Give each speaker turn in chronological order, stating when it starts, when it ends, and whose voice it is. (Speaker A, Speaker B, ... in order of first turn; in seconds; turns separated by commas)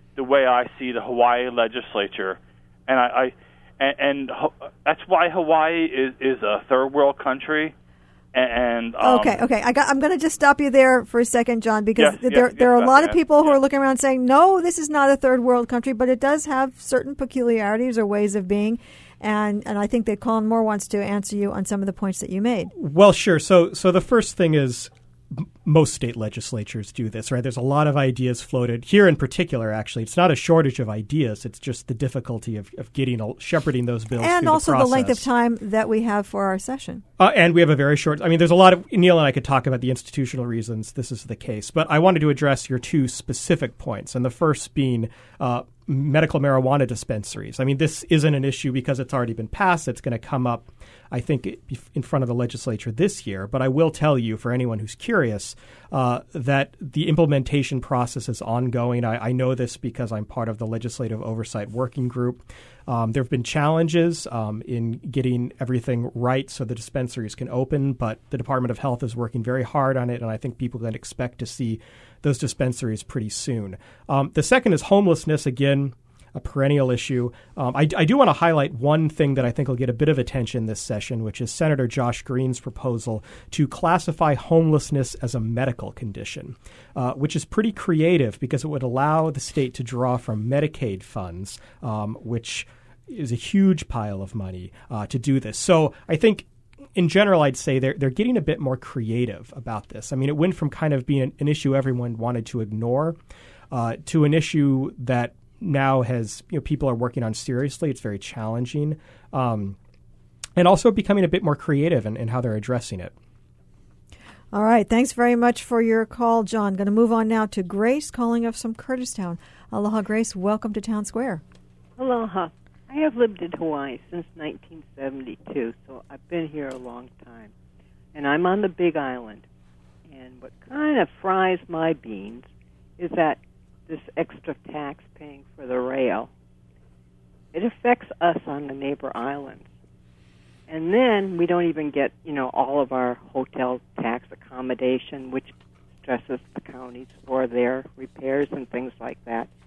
Speaker A: 0.1-7.7, Speaker A: 8.3-9.4, Speaker B: 9.0-22.7, Speaker A: 12.0-13.6, Speaker C: 22.8-35.3, Speaker B: 34.2-37.0, Speaker C: 37.2-96.5, Speaker C: 97.0-103.2, Speaker C: 103.7-109.8, Speaker C: 110.6-113.1, Speaker B: 114.5-121.4, Speaker D: 122.0-127.5, Speaker D: 128.1-129.4, Speaker D: 130.1-132.5, Speaker D: 133.0-136.3, Speaker D: 137.5-139.7, Speaker D: 140.7-145.5, Speaker D: 146.0-149.5